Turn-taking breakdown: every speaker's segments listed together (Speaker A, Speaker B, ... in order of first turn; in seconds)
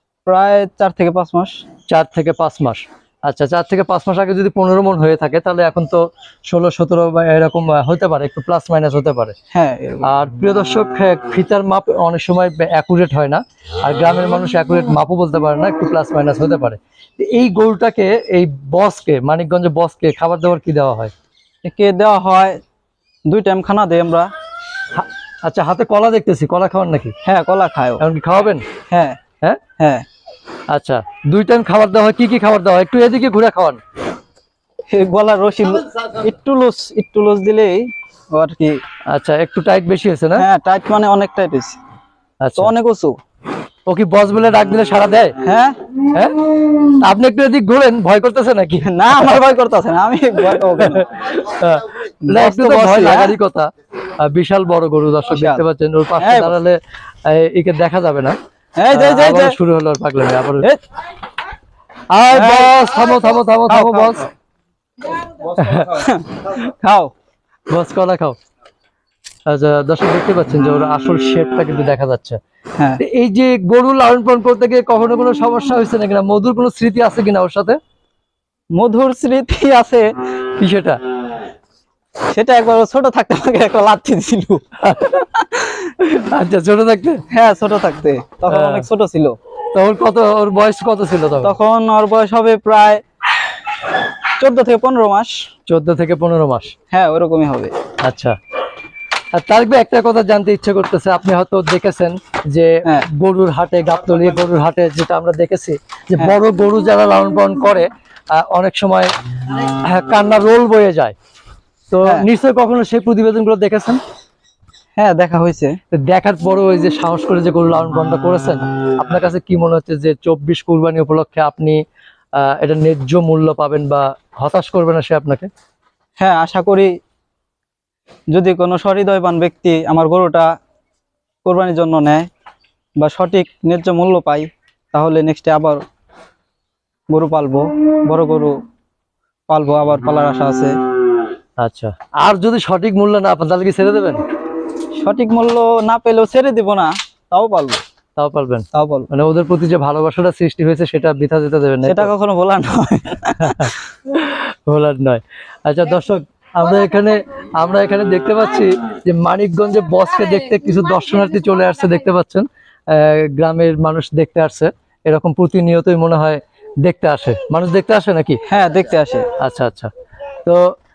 Speaker A: 0.2-1.5, 9.5-10.1, 21.6-22.6, 23.3-24.3, 27.2-28.0, 28.9-29.2, 29.8-30.0, 34.9-38.8, 40.4-41.8, 42.6-43.1, 45.4-45.8, 48.8-51.1, 52.2-53.4, 55.3-55.6, 56.2-56.5, 58.8-59.6, 62.1-62.8, 63.7-64.3, 65.5-67.1, 78.7-80.0, 82.3-84.6, 87.3-89.3, 91.4-93.0, 94.4-95.3, 96.9-97.7, 115.0-115.8, 126.2-126.9, 128.3-130.5, 131.4-132.3, 133.0-135.8, 137.1-138.5, 139.5-140.7, 145.0-147.8, 148.7-149.1, 151.8-153.7, 168.4-169.3
Speaker B: 1.9-9.3, 10.0-21.1, 24.9-27.1, 28.0-28.6, 30.7-33.8, 39.1-40.5, 42.4-42.7, 43.9-45.3, 46.1-46.4, 47.0-49.4, 50.8-53.7, 54.2-58.4, 58.9-60.7, 62.1-64.3, 65.6-66.0, 67.7-68.4, 69.5-72.4, 73.0-77.8, 80.6-81.0, 84.8-85.2, 85.8-87.2, 88.5-88.8, 89.7-91.5, 95.7-96.7, 98.0-98.3, 99.3-111.1, 111.9-114.0, 115.9-121.8, 122.3-125.5, 141.6-144.2, 148.2-152.1, 153.4-168.4, 169.4-169.9, 170.4-170.7